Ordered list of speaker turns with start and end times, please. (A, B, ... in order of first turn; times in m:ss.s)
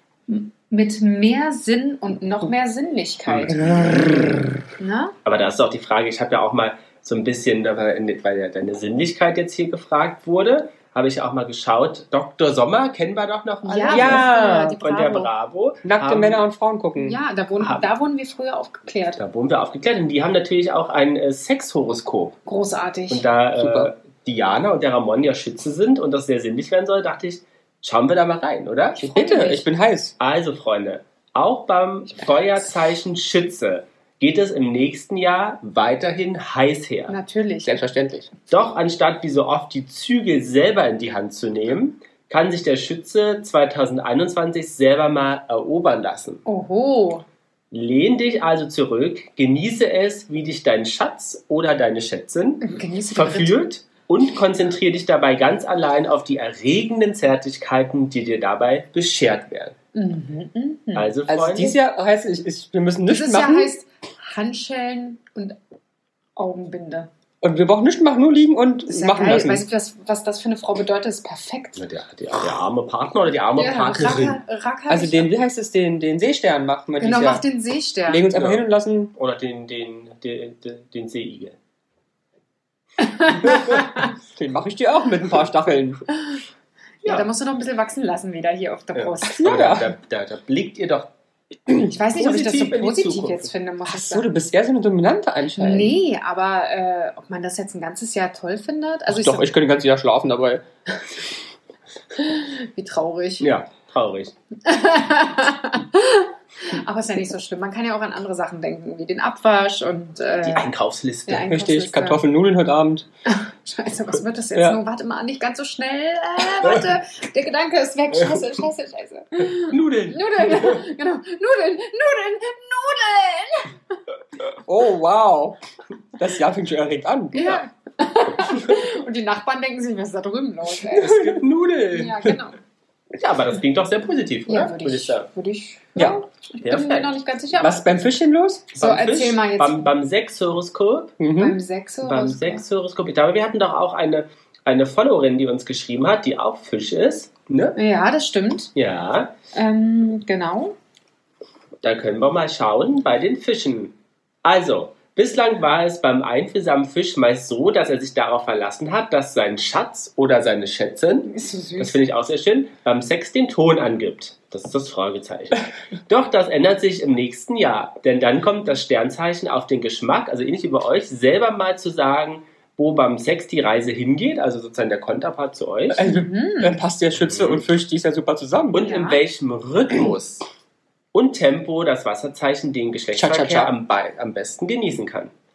0:00.3-0:03.6 A
0:03.3-0:04.4 B
0:03.5-0:04.5 C
0:04.8-0:05.1 A
0:05.2-0:16.4 B
0:13.6-0:15.3 A
0:13.9-0:14.8 C
0:15.8-0:17.2 C
0:17.0-0:19.2 A
0:17.6-0:17.9 B
0:19.2-0:22.4 B
0:22.4-0:23.2 A
0:23.1-0:29.0 B
0:23.5-0:23.9 C
0:29.0-0:29.6 A
0:29.0-0:30.1 C
0:30.2-0:37.1 B
0:37.1-0:37.7 A
0:37.6-0:38.3 C
0:38.5-0:46.4 B
0:46.4-0:47.2 A
0:47.7-0:59.8 B
0:52.6-0:53.6 A
0:59.9-1:01.1 A
1:00.9-1:01.8 B
1:01.3-1:03.7 C
1:03.1-1:05.6 A
1:06.4-1:07.1 A
1:07.4-1:09.6 C
1:08.9-1:11.8 A
1:11.8-1:14.4 B
1:13.5-1:15.3 A
1:14.9-1:17.4 C
1:17.0-1:18.3 A
1:18.1-1:19.1 C
1:18.3-1:21.6 B
1:23.0-1:23.9 A
1:23.4-1:23.9 B
1:24.4-1:26.0 C
1:27.0-1:29.8 A
1:28.9-1:31.1 B
1:29.3-1:29.9 C
1:31.9-1:34.3 A
1:32.1-1:33.5 B
1:33.9-1:36.0 C
1:35.6-1:39.5 A
1:39.1-1:40.6 C
1:42.2-1:43.5 A
1:43.4-1:44.3 B
1:44.6-1:50.7 A
1:50.4-1:51.5 B
1:51.3-1:52.2 A
1:51.5-1:53.1 C
1:53.2-2:04.0 A
1:54.5-1:54.8 C
1:59.7-2:00.8 B
2:04.6-2:05.6 C
2:06.2-2:07.6 C
2:07.3-2:11.3 A
2:11.0-2:11.4 C
2:11.0-2:12.4 B
2:11.9-2:12.6 A
2:13.2-2:15.3 B
2:14.5-2:17.8 A
2:16.6-2:17.1 B
2:17.6-2:18.7 C
2:18.7-2:21.2 B
2:18.8-2:19.9 A
2:21.2-2:21.6 C
2:21.4-2:22.6 A
2:22.0-2:27.8 B
2:27.8-2:28.7 A
2:28.7-2:29.3 B
2:29.5-2:30.7 A
2:31.8-2:56.0 B
2:41.3-2:42.0 A
2:55.9-2:58.9 C
2:56.0-2:56.8 A
2:57.2-2:57.6 B
2:58.7-3:00.4 B
2:58.8-2:59.2 A
3:01.1-3:05.3 B
3:03.1-3:03.7 C